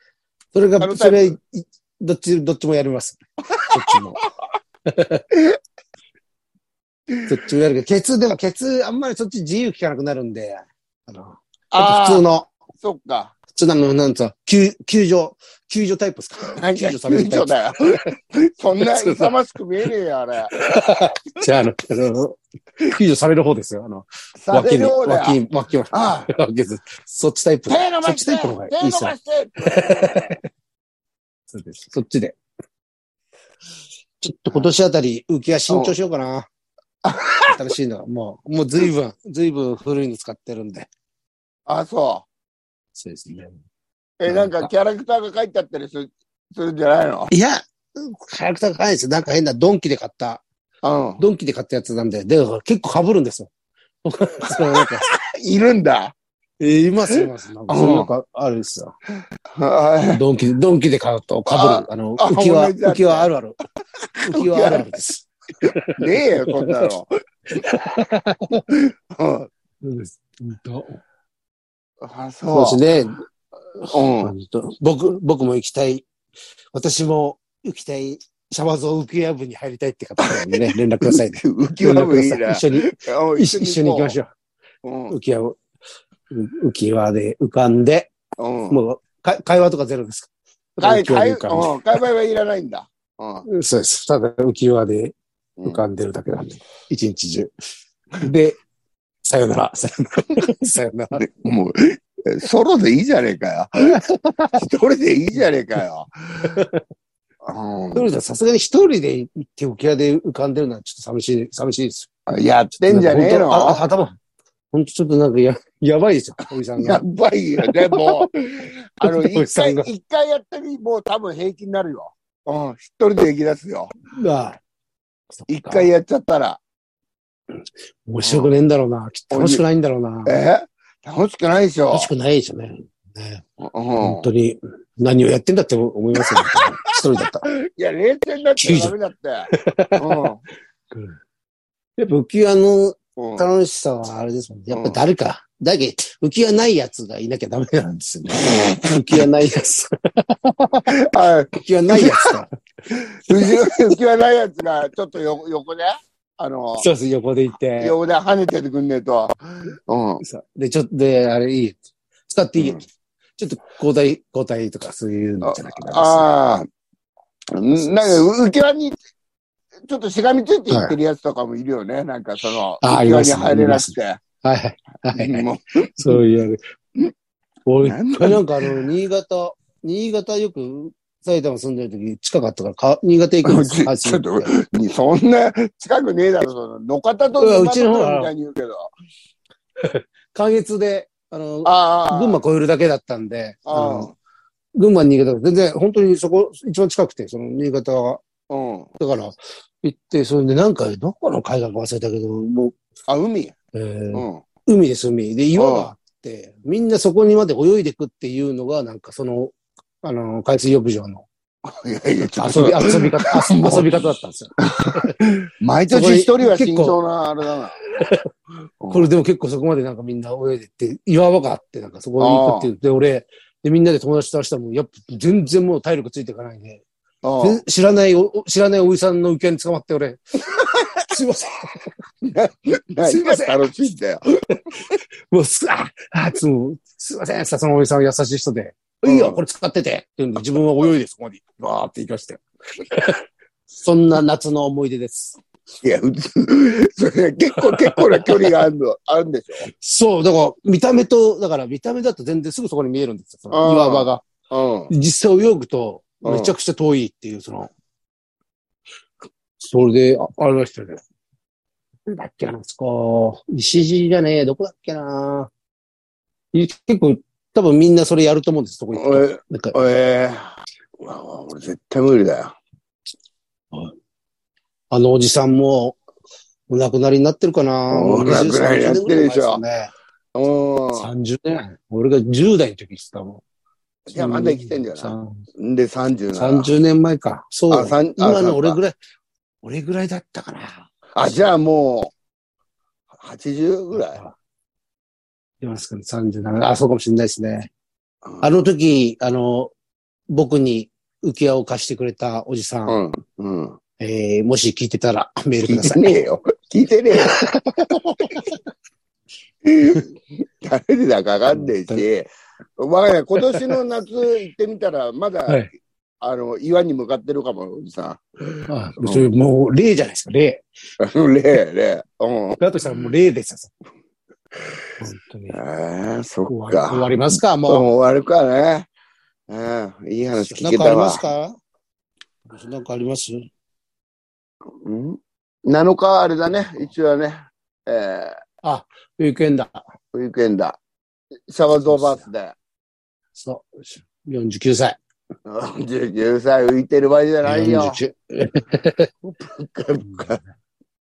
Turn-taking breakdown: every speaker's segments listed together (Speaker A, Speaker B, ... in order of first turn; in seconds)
Speaker A: 0.5-4.2, 4.9-5.3, 7.3-12.5, 13.6-18.1, 18.8-19.3, 20.5-30.4, 31.5-32.4, 34.2-36.5, 37.3-40.9, 43.0-43.6, 44.3-44.7, 47.3-50.4, 51.2-53.5, 54.0-55.1, 56.6-58.9, 60.1-63.6, 64.2-66.9, 67.5-68.7, 69.8-71.0, 72.5-73.2, 73.8-76.1, 76.7-84.3, 85.1-85.6, 86.3-88.1, 88.7-91.8, 93.5-95.2, 95.7-97.5, 98.2-98.6, 99.2-101.3, 103.8-104.6, 106.5-106.8, 108.0-112.1, 112.9-114.2, 114.7-117.0, 117.6-118.3, 119.0-119.9, 124.1-124.6, 125.4-125.9, 128.1-130.4, 131.9-133.4, 134.0-137.5, 138.6-138.9, 139.5-140.3, 140.9-141.2, 142.0-151.0, 151.5-152.5, 153.3-153.9, 156.8-158.0, 160.2-162.8, 163.4-166.3, 167.8-168.2, 170.7-171.0, 172.8-176.6, 177.7-184.5, 187.4-188.3, 189.8-194.1, 194.8-198.2, 199.0-202.8, 203.7-211.3, 212.3-215.2, 215.9-217.0, 217.8-218.3, 218.9-226.8, 227.4-231.9, 233.0-233.7, 234.7-243.2, 243.8-245.4, 247.6-248.5, 249.6-254.3, 254.9-257.7, 259.6-261.0, 262.1-265.5, 266.5-269.8, 274.9-276.0, 276.7-279.9, 281.0-283.4, 284.1-285.4, 286.3-288.9, 289.6-290.9, 293.9-294.4, 295.6-297.7, 298.4-299.7, 300.3-303.0, 304.0-306.1, 307.2-308.6, 311.5-312.0, 318.7-320.6, 322.6-323.7, 325.0-325.6, 326.5-327.9, 330.3-331.6, 332.5-333.4, 336.6-336.9, 338.6-339.8, 341.9-342.2, 343.4-345.0, 347.4-349.1, 350.0-350.5
Speaker B: 0.8-1.4, 3.5-4.3, 11.7-12.2, 12.8-13.3, 16.5-21.1, 24.4-25.4, 25.9-26.3, 27.7-30.4, 35.7-35.9, 37.0-37.7, 41.7-42.3, 44.2-47.3, 50.8-51.2, 54.5-56.1, 57.7-58.1, 59.5-60.2, 61.5-63.3, 64.3-64.8, 66.0-67.1, 68.7-69.5, 72.0-72.8, 73.9-74.3, 80.2-84.2, 84.8-85.2, 88.4-88.8, 90.8-93.5, 101.2-104.0, 104.6-106.6, 107.4-108.1, 112.3-113.8, 116.8-123.9, 125.5-126.6, 128.2-128.5, 129.3-129.6, 130.3-132.1, 133.6-134.3, 136.2-136.9, 137.5-140.4, 143.2-143.5, 144.7-145.0, 148.3-149.3, 150.9-152.4, 152.9-156.9, 157.8-160.2, 165.4-166.7, 167.5-169.0, 169.9-174.2, 175.2-176.2, 177.8-178.8, 183.5-188.9, 191.7-192.4, 193.7-194.2, 198.5-198.9, 203.1-203.6, 204.1-204.4, 205.6-205.9, 211.7-214.0, 214.8-217.8, 218.8-219.1, 222.2-222.7, 227.2-227.6, 230.6-230.9, 232.2-234.2, 239.1-239.4, 245.8-249.7, 253.5-254.9, 256.2-256.5, 268.9-272.6, 277.9-279.6, 280.4-281.1, 284.1-286.7, 287.7-288.8, 291.2-292.1, 293.2-294.2, 302.9-303.8, 305.7-307.4, 308.2-308.5, 309.6-315.6, 316.2-319.3, 321.0-323.0, 325.5-327.1, 327.7-328.9, 329.5-331.2, 334.8-338.4, 340.1-340.8, 341.5-342.6, 345.5-348.0, 349.3-350.4